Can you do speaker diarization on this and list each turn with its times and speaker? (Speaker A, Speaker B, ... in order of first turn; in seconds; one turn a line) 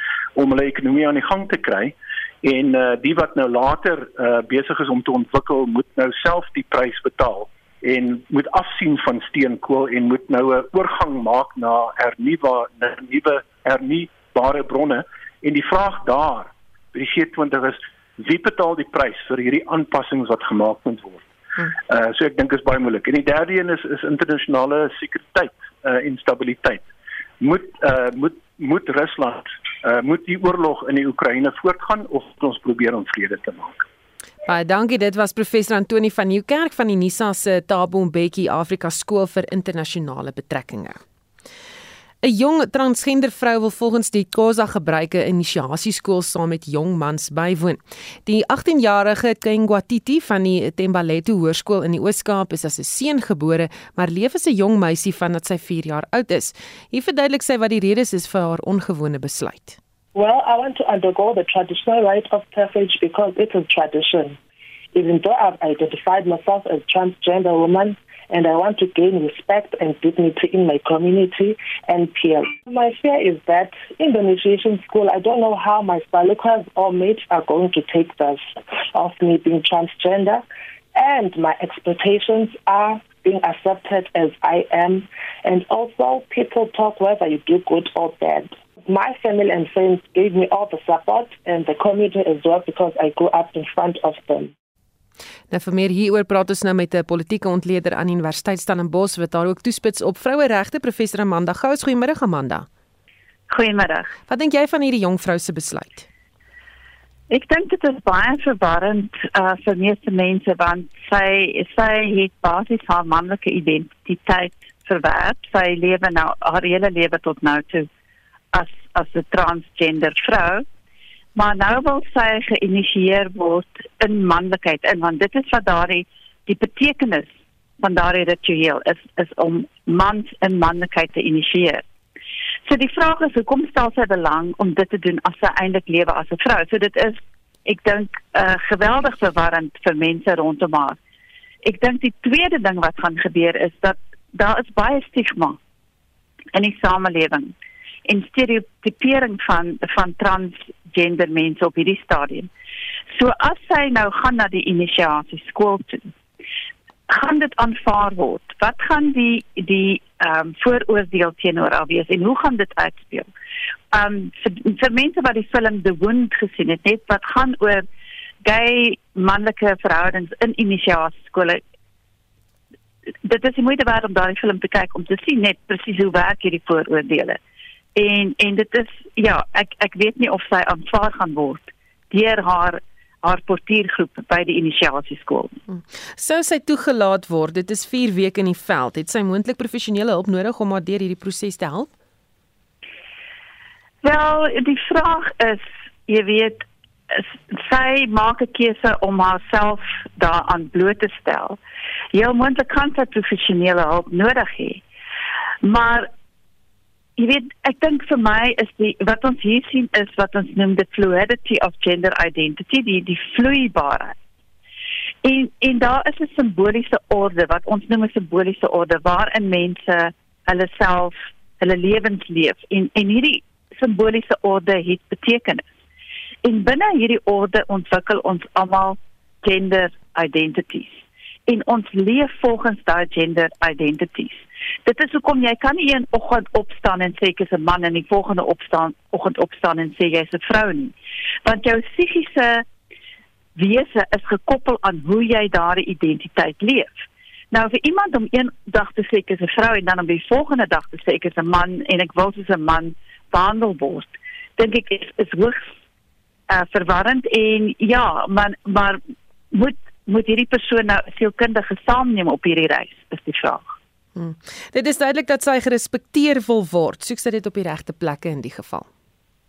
Speaker A: 0.4-21.2
Speaker A: 21.9-26.9
Speaker A: 27.4-33.8
Speaker B: 34.5-41.0
Speaker B: 42.2-59.8
Speaker C: 60.1-64.4
Speaker C: 64.9-80.4
Speaker C: 80.9-94.5
Speaker B: 95.5-102.7
Speaker D: 103.5-104.1
Speaker B: 104.3-106.1
Speaker D: 107.3-117.9
Speaker D: 118.5-120.6
Speaker D: 121.3-127.3
Speaker D: 127.8-131.8
Speaker D: 132.7-141.0
Speaker D: 141.6-145.6
Speaker D: 146.5-147.5
Speaker D: 148.1-152.5
Speaker D: 153.1-156.1
Speaker D: 157.1-163.3
Speaker D: 163.9-167.8
Speaker D: 168.4-171.6
Speaker D: 173.2-177.4
Speaker D: 177.9-185.5
Speaker B: 185.7-191.9
Speaker D: 194.0-201.6
Speaker D: 202.1-204.8
Speaker D: 205.6-206.1
Speaker D: 207.2-214.1
Speaker D: 215.2-225.7
Speaker D: 226.4-240.9
Speaker D: 241.4-242.6
Speaker D: 243.6-255.7
Speaker D: 256.5-259.0
Speaker D: 259.5-263.7
Speaker B: 264.1-268.9